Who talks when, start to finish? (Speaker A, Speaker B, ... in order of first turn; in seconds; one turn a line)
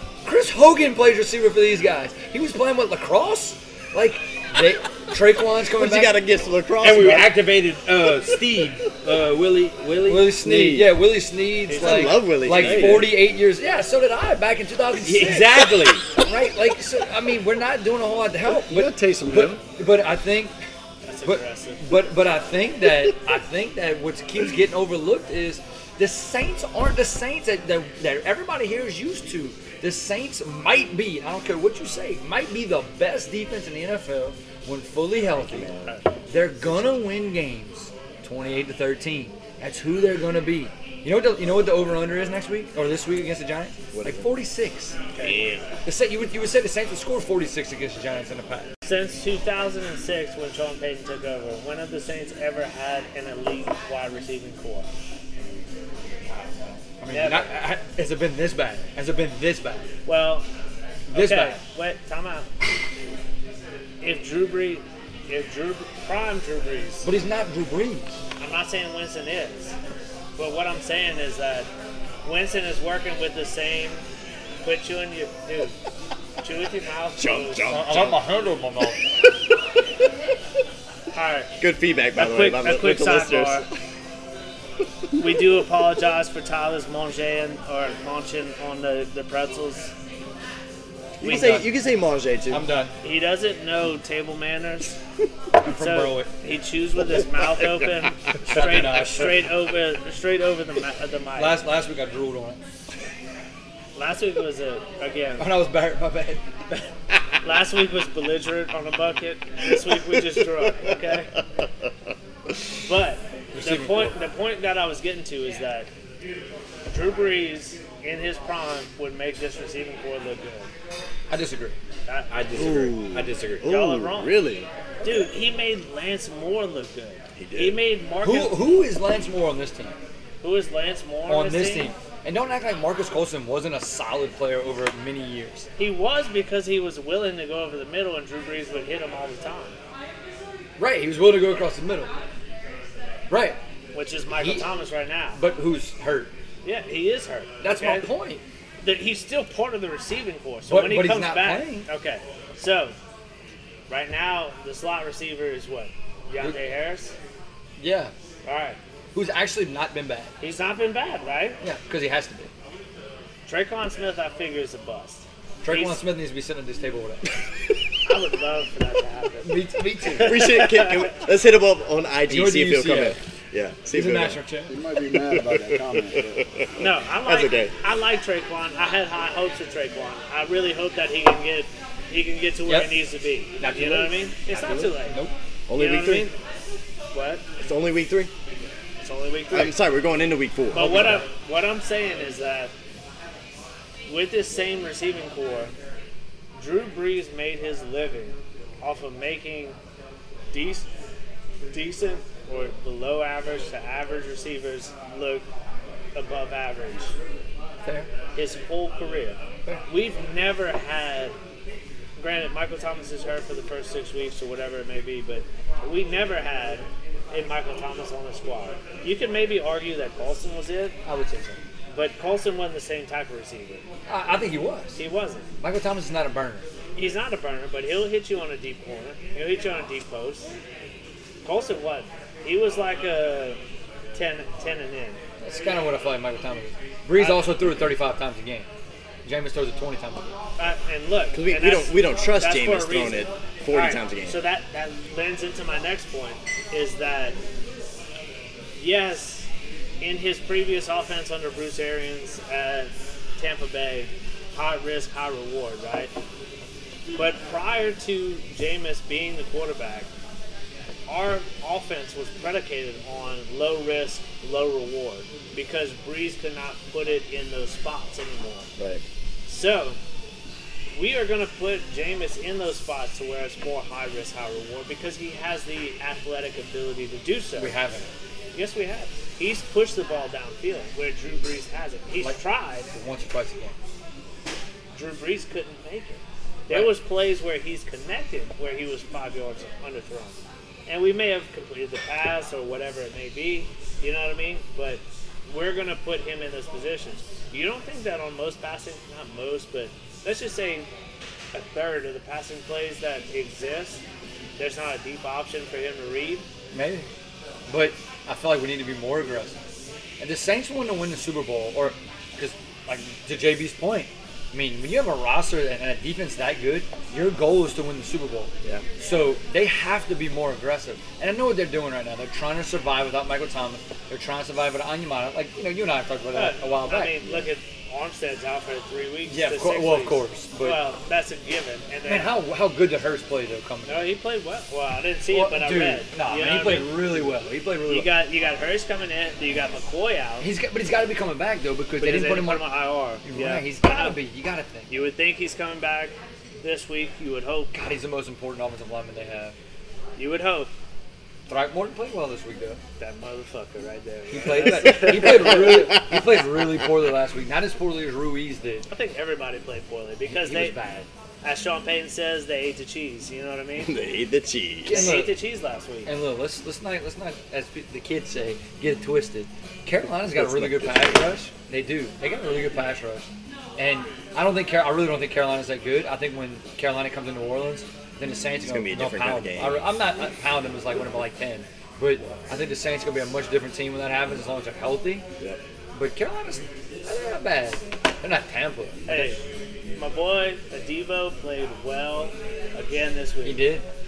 Speaker A: 0.2-6.2
Speaker B: 5.7-7.4
Speaker C: 6.8-10.5
Speaker A: 10.1-20.6
Speaker B: 10.4-10.9
Speaker D: 11.7-12.2
Speaker B: 11.7-13.1
Speaker C: 15.0-16.0
Speaker E: 18.5-19.6
Speaker D: 21.1-21.8
Speaker A: 21.2-35.7
Speaker B: 35.3-36.0
Speaker A: 36.3-45.0
Speaker B: 36.6-37.0
Speaker B: 43.9-44.3
Speaker D: 45.1-45.5
Speaker C: 45.2-45.5
Speaker A: 45.9-48.7
Speaker D: 48.9-54.9
Speaker A: 56.3-59.9
Speaker D: 57.1-57.5
Speaker D: 60.1-60.5
Speaker A: 61.1-61.6
Speaker D: 61.1-62.5
Speaker D: 64.0-67.1
Speaker A: 67.0-68.2
Speaker D: 68.4-69.8
Speaker D: 70.4-71.7
Speaker D: 72.2-74.0
Speaker D: 74.6-75.8
Speaker D: 76.4-77.7
Speaker B: 77.2-78.2
Speaker A: 77.7-79.0
Speaker D: 81.1-81.5
Speaker B: 81.6-83.6
Speaker D: 82.2-83.7
Speaker D: 85.2-89.9
Speaker B: 91.2-92.6
Speaker A: 91.2-91.7
Speaker A: 92.5-92.9
Speaker D: 93.0-95.0
Speaker A: 95.6-96.3
Speaker D: 95.7-101.6
Speaker A: 98.4-99.5
Speaker A: 101.4-102.6
Speaker D: 104.0-105.5
Speaker A: 105.4-106.4
Speaker D: 107.4-111.3
Speaker D: 112.8-115.9
Speaker A: 113.5-114.2
Speaker D: 116.9-120.7
Speaker A: 121.3-121.8
Speaker D: 122.1-122.4
Speaker C: 122.3-123.6
Speaker B: 122.5-124.7
Speaker D: 123.6-124.3
Speaker D: 125.0-128.7
Speaker B: 127.4-127.8
Speaker A: 128.2-130.0
Speaker D: 130.4-131.9
Speaker A: 131.3-135.7
Speaker D: 135.8-139.8
Speaker A: 140.8-142.1
Speaker A: 143.3-143.6
Speaker D: 143.9-145.4
Speaker A: 144.3-144.7
Speaker A: 145.3-146.3
Speaker D: 146.6-148.1
Speaker A: 147.6-148.4
Speaker D: 148.8-152.9
Speaker A: 150.7-151.9
Speaker D: 153.9-157.1
Speaker A: 157.8-158.1
Speaker D: 158.4-158.8
Speaker A: 159.1-160.3
Speaker D: 160.4-161.6
Speaker A: 161.6-162.5
Speaker D: 163.4-166.0
Speaker A: 165.6-167.3
Speaker D: 168.1-171.1
Speaker A: 169.4-170.6
Speaker B: 170.2-174.4
Speaker A: 172.3-173.2
Speaker A: 173.9-174.7
Speaker E: 174.7-176.4
Speaker B: 175.1-177.7
Speaker D: 176.8-185.2
Speaker A: 182.7-183.0
Speaker A: 183.6-185.3
Speaker B: 185.7-186.3
Speaker D: 185.8-186.4
Speaker D: 187.1-187.4
Speaker B: 187.6-188.3
Speaker D: 189.0-189.8
Speaker B: 189.5-191.2
Speaker D: 190.7-192.7
Speaker A: 190.8-191.2
Speaker D: 194.1-195.7
Speaker D: 196.6-199.8
Speaker D: 200.5-200.9
Speaker D: 201.7-205.4
Speaker D: 206.1-207.2
Speaker D: 208.3-211.4
Speaker D: 212.2-220.9
Speaker A: 221.1-221.6
Speaker D: 221.9-223.8
Speaker A: 224.1-225.0
Speaker D: 224.9-225.5
Speaker A: 225.6-226.7
Speaker D: 226.9-230.5
Speaker D: 231.4-233.6
Speaker D: 234.1-235.2
Speaker A: 235.4-238.7
Speaker D: 237.2-237.6
Speaker A: 239.2-240.3
Speaker D: 240.6-247.4
Speaker B: 241.3-244.4
Speaker D: 248.8-249.5
Speaker D: 250.0-256.1
Speaker D: 257.1-260.1
Speaker D: 261.1-268.7
Speaker B: 268.8-269.0
Speaker D: 269.4-270.0
Speaker D: 270.9-277.8
Speaker A: 277.6-278.1
Speaker D: 278.5-282.9
Speaker A: 282.9-283.8
Speaker D: 284.9-300.9
Speaker D: 301.5-304.0
Speaker D: 304.6-306.4
Speaker A: 306.7-307.1
Speaker A: 307.7-309.6
Speaker A: 310.2-327.2
Speaker D: 326.3-332.4
Speaker A: 329.3-330.8
Speaker A: 332.1-334.1
Speaker D: 333.9-337.1
Speaker A: 335.3-338.1
Speaker D: 337.9-340.5
Speaker A: 340.4-344.9
Speaker D: 342.0-344.2
Speaker D: 344.9-347.8
Speaker A: 347.7-349.6
Speaker D: 350.2-350.7
Speaker A: 351.5-352.8
Speaker D: 353.0-355.9
Speaker A: 354.3-358.9
Speaker B: 354.9-356.9
Speaker D: 358.9-360.9
Speaker A: 360.3-361.1
Speaker D: 361.4-363.9
Speaker B: 363.8-365.1
Speaker A: 364.9-365.4
Speaker D: 364.9-366.1
Speaker A: 366.1-385.3
Speaker B: 370.3-371.2
Speaker B: 378.6-379.9
Speaker A: 385.9-389.4
Speaker D: 389.1-389.4
Speaker D: 389.9-393.6
Speaker A: 393.4-393.9